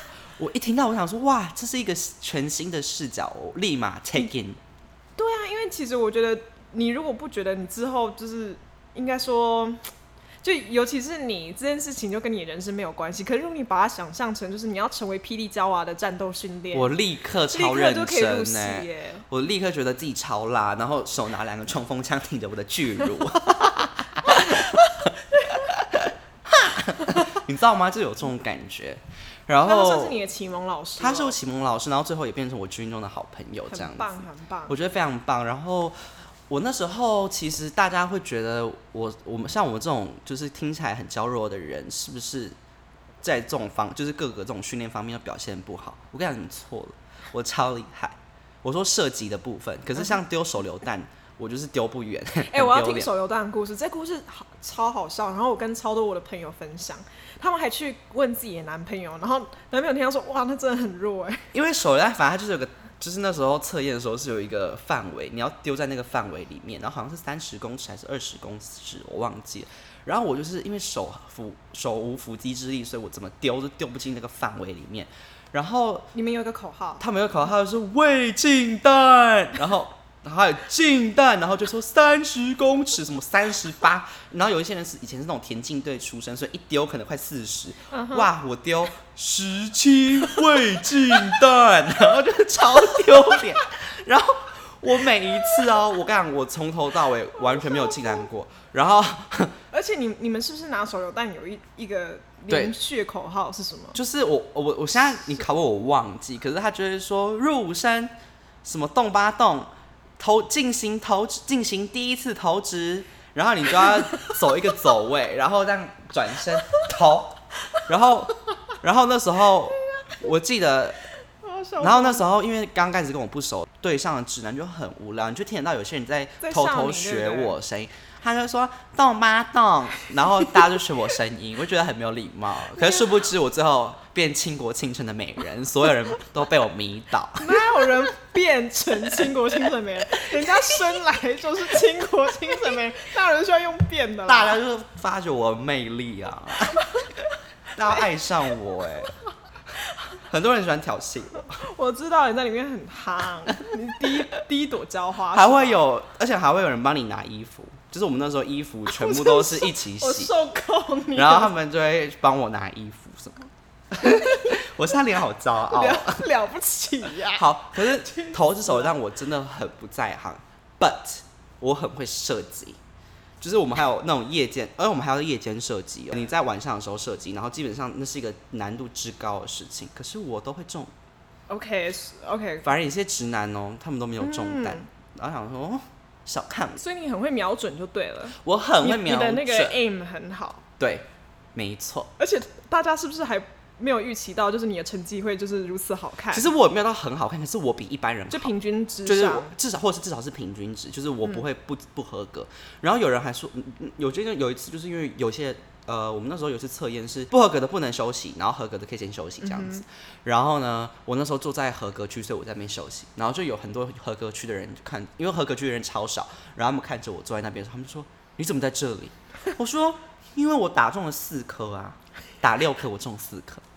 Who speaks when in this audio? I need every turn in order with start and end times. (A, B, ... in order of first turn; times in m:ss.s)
0:00.4-0:04.6 A
0:05.2-0:09.8 B
0:10.4-0:17.0 B
0:16.7-0:30.2 A
0:17.5-0:19.2 B
0:29.6-0:31.4 B
0:31.0-0:34.2 A
0:33.7-0:34.8 B
0:34.7-0:36.0 A
0:36.5-0:42.6 A
0:43.2-0:53.1 A
0:52.4-1:01.5 B
1:01.5-1:16.1 A
1:16.1-1:17.0 B
1:17.0-1:39.6 A
1:27.9-1:28.3 B
1:39.7-1:44.0 B
1:42.5-1:42.8 A
1:43.9-1:48.1 A
1:48.6-2:01.0 A
2:01.4-2:02.2 B
2:01.8-2:18.0 A
2:06.4-2:07.6 B
2:12.8-2:13.0 B
2:17.4-2:24.6 B
2:24.3-2:26.9 A
2:27.7-2:29.1 A
2:30.3-2:31.6 A
2:31.6-2:35.8 B
2:35.3-2:40.3 A
2:38.9-2:41.5 B
2:41.1-2:46.2 A
2:44.1-2:44.6 B
2:45.7-2:48.9 B
2:47.2-2:52.8 A
2:53.4-3:00.9 A
3:01.5-3:02.7 B
3:02.6-3:06.8 A
3:04.2-3:04.9 B
3:06.8-3:10.6 B
3:08.4-3:09.8 A
3:10.8-3:12.1 A
3:12.2-3:16.5 B
3:16.3-3:18.5 A
3:18.3-3:19.5 B
3:19.0-3:43.6 A
3:29.4-3:29.8 B